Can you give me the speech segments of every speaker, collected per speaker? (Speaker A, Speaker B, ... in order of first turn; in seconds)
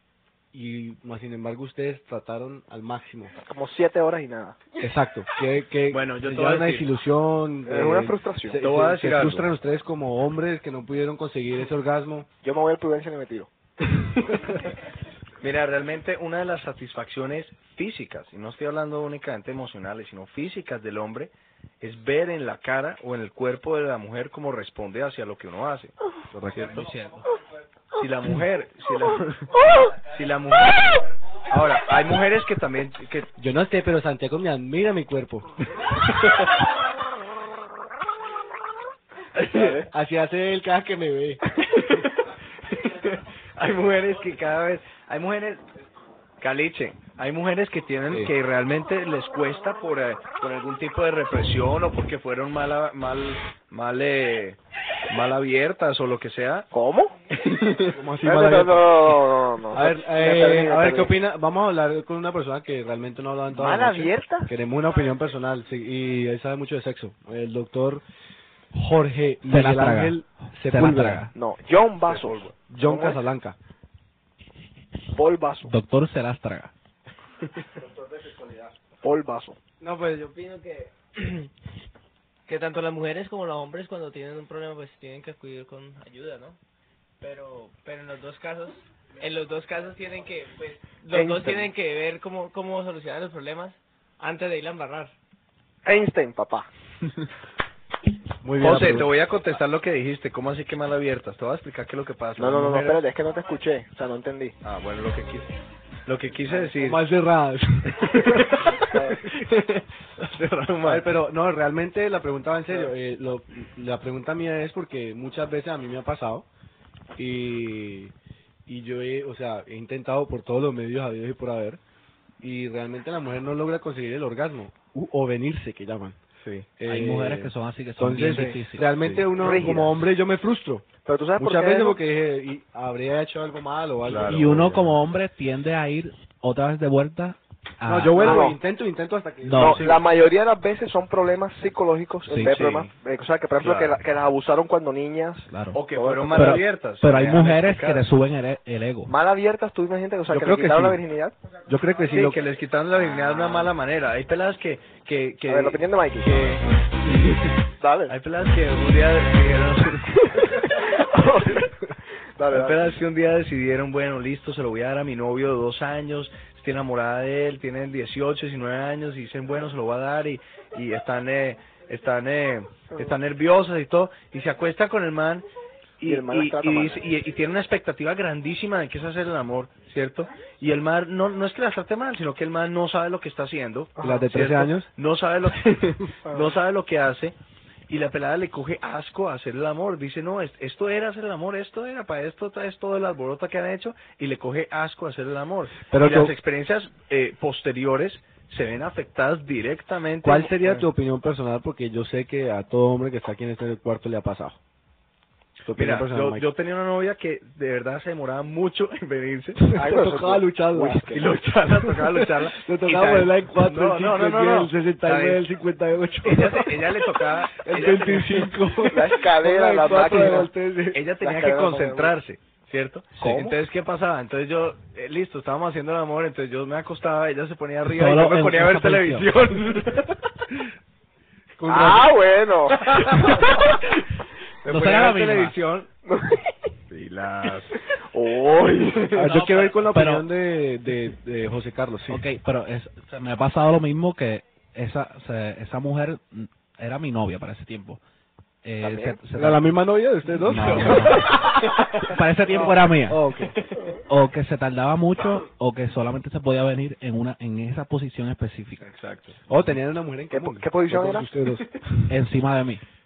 Speaker A: 0.5-3.4, 4.8-12.3, 26.3-26.9, 33.4-35.5, 39.4-41.4, 57.9-68.0, 68.7-71.3, 72.7-73.6, 78.1-78.7, 98.4-99.1, 106.5-109.0, 110.8-116.5, 117.2-118.1, 118.7-121.8, 122.4-126.2, 126.8-134.9, 137.8-140.0, 150.3-151.0, 151.7-152.4, 184.0-184.9, 195.9-196.3, 200.2-204.6, 205.7-206.4, 209.7-211.1, 211.8-221.1, 231.6-232.2, 239.1-242.3, 249.3-251.3, 252.5-253.6, 259.5-262.0
Speaker B: 3.4-4.6, 7.7-8.6, 12.4-13.5, 39.6-39.8, 56.7-57.1, 58.2-61.1, 63.7-64.5, 71.3-73.2, 75.1-75.7, 79.0-79.6, 91.1-91.7, 95.8-96.7, 102.4-104.6, 129.4-130.0, 131.1-132.0, 138.2-138.6, 139.6-146.6, 149.1-151.4, 155.5-156.6, 157.8-158.2, 160.8-161.7, 162.4-163.0, 176.0-177.1, 184.0-184.2, 186.3-186.5, 209.8-211.3, 218.9-220.5, 221.2-222.2, 223.2-223.6, 231.7-233.7, 236.1-236.4, 238.1-239.3, 248.8-249.2, 260.3-261.3
Speaker C: 5.9-6.9, 8.6-9.5, 15.4-25.9, 26.5-27.2, 28.0-33.3, 36.2-36.5, 39.4-39.7, 41.7-45.6, 46.4-56.7, 57.3-57.9, 72.1-72.6, 98.6-103.0, 104.6-105.5, 106.1-107.0, 108.0-111.2, 126.4-126.7, 129.0-129.3, 134.0-134.9, 143.6-144.0, 145.7-148.1, 152.1-156.7, 158.1-160.6, 162.5-175.5, 176.0-187.4, 187.9-200.9, 205.8-209.7, 211.1-215.4, 216.2-218.6, 220.9-230.2, 232.8-233.8, 234.6-235.9, 236.9-237.8, 250.5-251.2, 258.8-259.4
Speaker D: 69.5-71.3, 75.7-76.7, 126.9-129.0, 134.2-138.5, 139.4-140.0, 142.3-142.9, 145.5-145.8, 146.3-149.1, 227.9-229.3, 234.7-235.6, 239.3-240.3, 242.1-248.0, 248.6-249.8, 250.4-253.2, 254.1-258.9, 262.1-262.8
Speaker E: 79.8-81.5, 82.5-86.6, 87.2-95.1